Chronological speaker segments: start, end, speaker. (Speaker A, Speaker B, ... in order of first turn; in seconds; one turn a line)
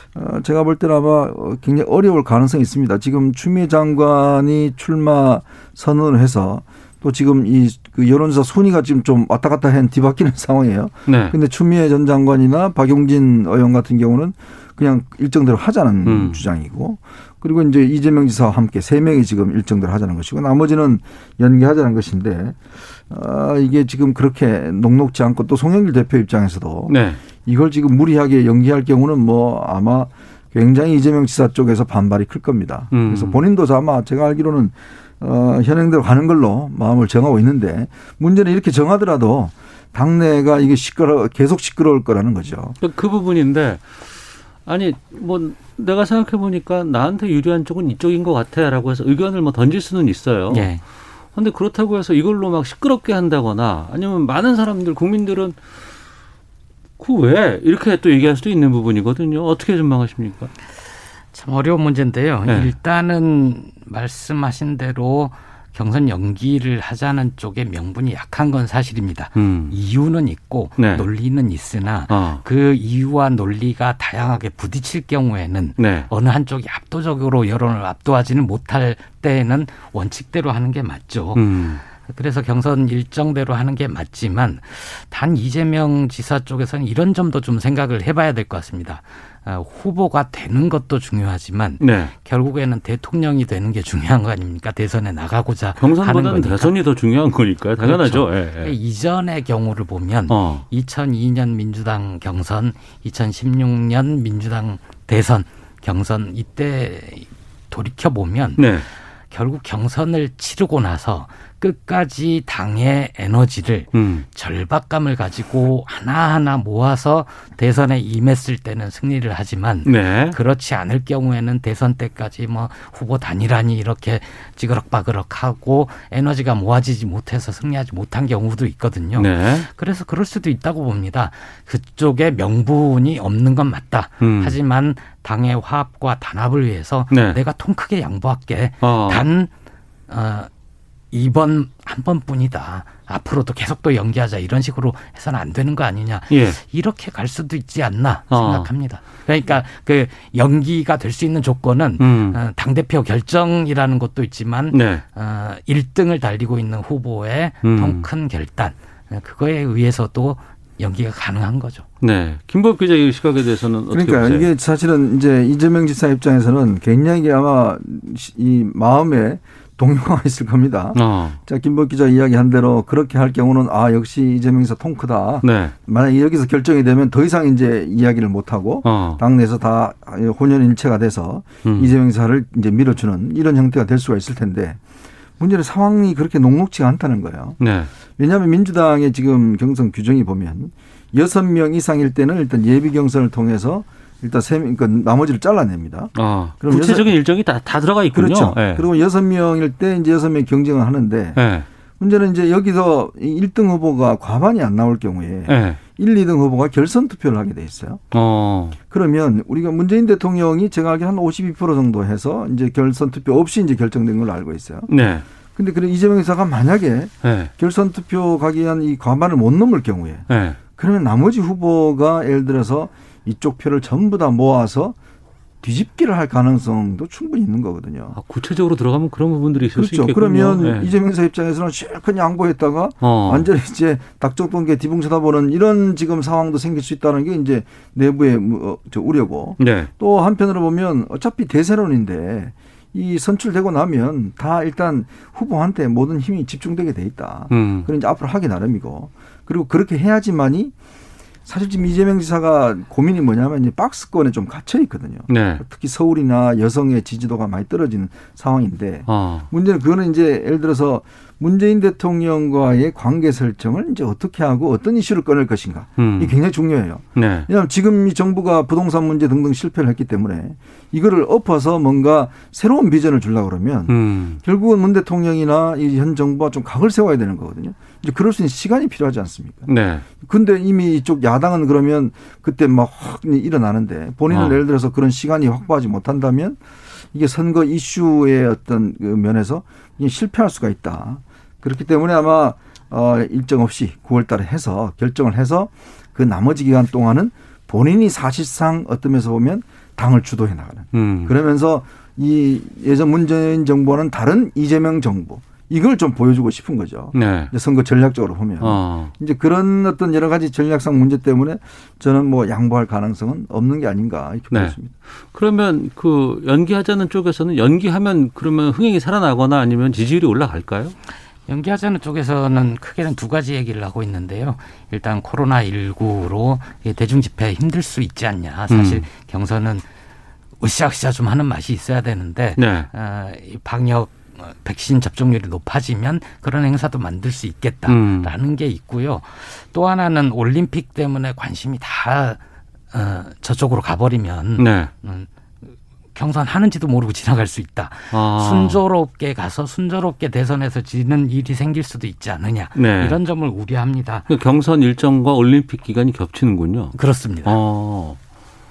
Speaker A: 0.1-42.8
Speaker B: 11.1-11.4
Speaker B: 16.1-16.4
Speaker B: 26.9-27.2
Speaker B: 32.9-33.4
Speaker B: 42.8-44.0
Speaker B: 44.6-50.8
Speaker C: 50.5-50.8
Speaker B: 51.3-55.6
Speaker B: 57.0-60.5
Speaker C: 61.3-96.8
Speaker B: 62.5-62.8
Speaker B: 69.4-69.8
Speaker B: 70.8-71.1
Speaker B: 72.1-72.4
Speaker B: 75.8-76.1
Speaker B: 81.3-81.8
Speaker B: 91.8-92.1
Speaker B: 95.8-98.8
Speaker C: 97.8-139.5
Speaker B: 100.3-100.7
Speaker B: 108.6-108.9
Speaker B: 113.9-114.2
Speaker B: 119.8-120.4
Speaker B: 129.2-129.7
Speaker B: 134.2-134.6
Speaker B: 137.1-137.4
Speaker B: 138.8-139.2
Speaker C: 140.1-140.5
Speaker C: 141.1-161.9
Speaker B: 146.3-146.6
Speaker B: 148.3-149.1
Speaker B: 152.0-152.4
Speaker B: 154.7-155.0
Speaker B: 157.6-158.1
Speaker B: 162.0-164.5
Speaker A: 163.9-184.8
Speaker B: 170.9-171.4
Speaker B: 175.4-175.7
Speaker B: 178.8-179.2
Speaker B: 181.7-181.9
Speaker A: 185.4-187.6
Speaker B: 187.6-187.9
Speaker A: 188.2-197.1
Speaker B: 196.2-198.9
Speaker A: 198.1-201.4
Speaker B: 201.4-201.7
Speaker A: 202.0-208.0
Speaker B: 205.5-205.8
Speaker B: 208.1-208.8
Speaker A: 208.9-214.9
Speaker B: 214.9-215.2
Speaker A: 215.6-225.0
Speaker B: 217.2-217.5
Speaker B: 220.3-220.6
Speaker A: 225.6-228.2
Speaker B: 228.2-230.9
Speaker A: 229.7-250.7
Speaker B: 233.0-233.5
Speaker B: 239.6-239.9
Speaker B: 247.5-247.9
Speaker A: 251.5-286.6
Speaker B: 255.3-255.6
Speaker B: 259.1-259.5
Speaker B: 266.0-266.4
Speaker B: 267.2-267.5
Speaker B: 273.9-274.4
Speaker B: 279.7-280.1
Speaker B: 284.3-284.6
Speaker A: 287.1-314.9
Speaker B: 300.9-301.3
Speaker B: 307.1-307.5
Speaker B: 308.6-309.1
Speaker B: 314.5-314.8
Speaker B: 315.3-320.9
Speaker C: 321.5-329.9
Speaker B: 328.7-329.1
Speaker C: 330.6-342.4
Speaker B: 332.6-332.9
Speaker B: 337.9-338.3
Speaker C: 342.9-345.3
Speaker B: 344.6-344.9
Speaker C: 346.1-354.3
Speaker B: 348.1-348.8
Speaker B: 352.8-353.2
Speaker B: 354.3-358.2
Speaker C: 356.9-357.6